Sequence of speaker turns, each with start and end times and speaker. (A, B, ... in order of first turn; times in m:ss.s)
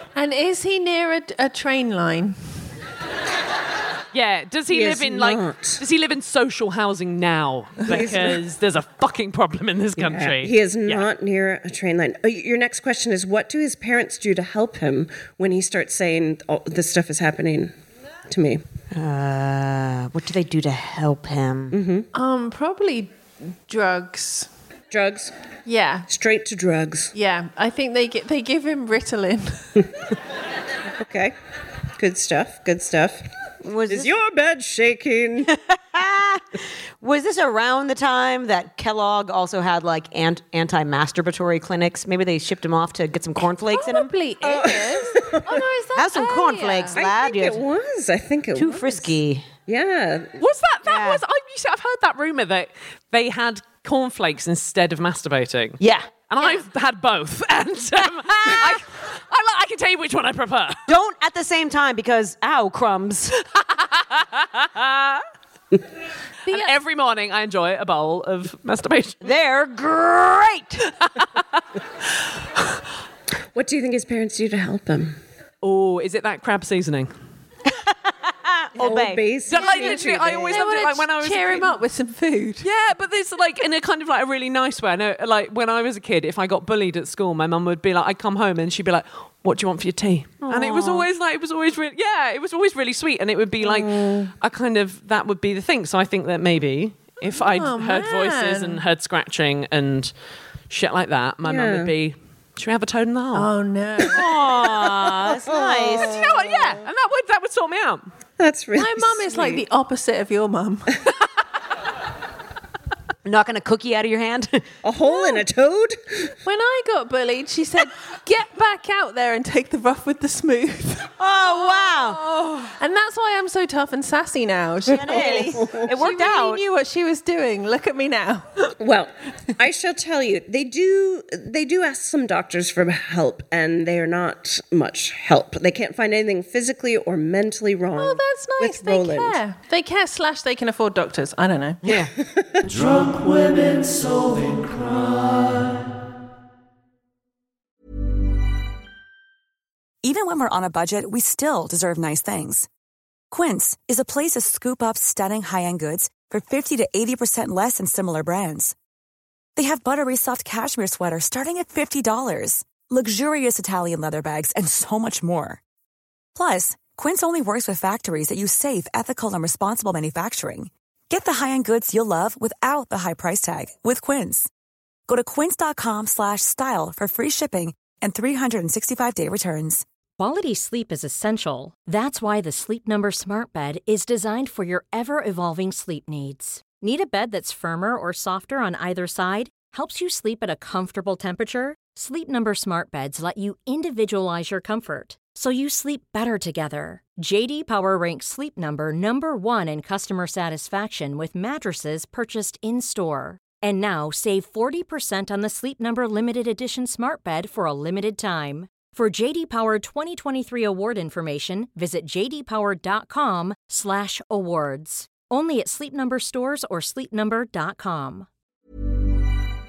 0:00.2-0:02.4 A
0:04.1-0:11.0 B
0:04.7-0:05.8 C
0:07.9-0:08.4 C
0:10.0-0:17.7 C
0:18.3-0:18.6 C
0:18.9-0:21.8 D
0:21.7-0:22.1 C
0:22.1-0:23.1 A
0:23.7-0:24.5 A
0:24.9-0:25.3 C
0:25.7-0:26.1 A
0:26.1-0:27.1 C
0:27.1-0:29.9 A
0:31.0-0:31.4 C
0:32.0-0:33.2 C
0:33.6-0:34.1 D
0:33.9-0:35.5 C
0:35.5-0:44.1 D
0:43.7-0:46.9 A
0:44.4-0:45.6 C
0:45.9-0:47.6 D
0:47.0-0:49.1 C
0:48.6-0:49.5 D
0:49.7-0:50.4 C
0:50.4-1:00.9 B
0:50.8-0:51.2 D
0:55.8-0:56.2 D
1:00.9-1:03.4 D
1:03.6-1:05.2 B
1:06.5-1:06.7 A
1:06.5-1:09.2 B
1:09.2-1:10.9 D
1:11.0-1:11.6 B
1:13.6-1:15.2 C
1:15.6-1:17.1 B
1:17.7-1:19.2 D
1:18.8-1:20.8 C
1:18.9-1:22.7 A
1:19.5-1:21.8 B
1:22.6-1:40.1 B
1:30.4-1:31.1 D
1:33.6-1:34.3 C
1:37.4-1:38.8 A
1:40.7-1:43.5 B
1:41.4-1:41.9 C
1:43.3-1:44.3 A
1:44.1-1:46.3 D
1:44.8-1:45.3 B
1:45.4-1:46.7 C
1:46.0-1:48.1 B
1:48.4-1:49.6 C
1:48.8-1:51.0 A
1:53.2-1:54.7 D
1:54.8-1:56.3 C
1:55.0-1:55.4 A
1:56.4-2:01.2 A
2:01.2-2:02.4 D
2:01.8-2:08.5 A
2:04.9-2:05.9 C
2:04.9-2:06.6 D
2:08.8-2:19.4 C
2:18.0-2:21.8 A
2:21.8-2:22.1 D
2:22.2-2:22.7 C
2:30.0-2:32.7 E
2:33.3-2:38.8 E
2:39.6-2:45.6 E
2:46.4-2:54.5 E
2:55.1-2:59.8 E
3:00.2-3:38.3 F